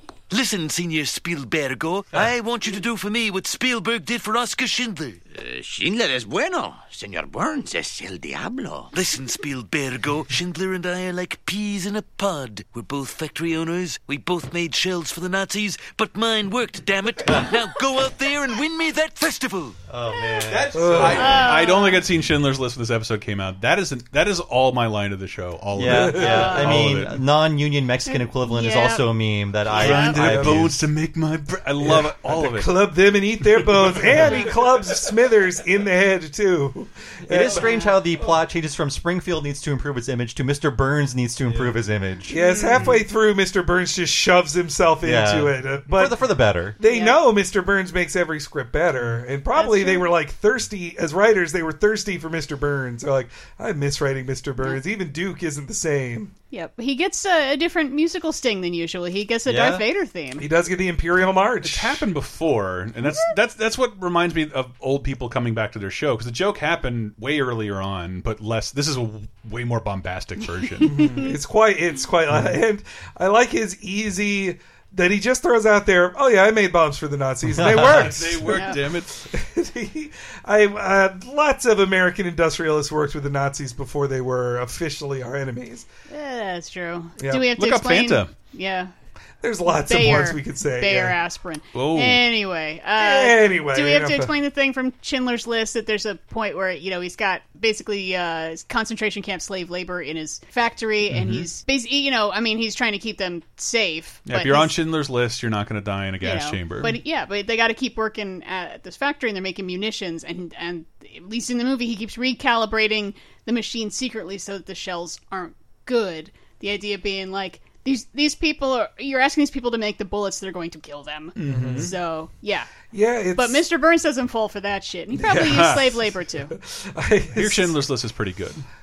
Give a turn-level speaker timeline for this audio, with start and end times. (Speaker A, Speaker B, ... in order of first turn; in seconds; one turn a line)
Speaker A: 0.3-5.2
Speaker B: 5.3-8.9
Speaker A: 8.9-19.8
Speaker C: 19.9-21.4
Speaker D: 20.5-27.2
Speaker E: 20.7-21.4
Speaker F: 21.1-22.0
Speaker C: 25.8-30.8
Speaker E: 25.9-26.5
Speaker F: 28.1-29.1
Speaker F: 29.7-30.2
Speaker D: 29.7-32.7
Speaker E: 30.1-30.7
Speaker E: 31.8-37.7
Speaker D: 33.6-34.4
Speaker F: 34.2-34.5
Speaker C: 37.3-42.3
Speaker F: 37.5-38.0
Speaker D: 41.5-41.8
Speaker E: 42.3-46.2
Speaker F: 42.3-43.0
Speaker C: 45.0-46.8
Speaker E: 46.8-56.3
Speaker F: 46.8-47.2
Speaker F: 49.5-50.1
Speaker F: 56.5-60.5
Speaker C: 59.5-59.8
Speaker E: 60.4-62.0
Speaker D: 61.6-71.0
Speaker F: 70.8-71.3
Speaker E: 70.8-85.9
Speaker C: 77.6-78.2
Speaker D: 77.6-79.1
Speaker F: 78.5-78.8
Speaker F: 86.1-88.9
Speaker E: 87.2-87.5
Speaker D: 87.6-88.3
Speaker E: 89.4-91.2
Speaker F: 89.8-104.7
Speaker D: 91.7-92.2
Speaker E: 93.0-94.3
Speaker D: 101.1-101.5
Speaker D: 104.3-107.0
Speaker F: 106.2-122.7
Speaker D: 121.4-121.9
Speaker E: 121.5-121.9
Speaker E: 122.9-123.6
Speaker F: 123.4-126.5
Speaker E: 125.2-125.8
Speaker D: 125.3-125.9
Speaker E: 126.5-127.7
Speaker D: 127.3-128.6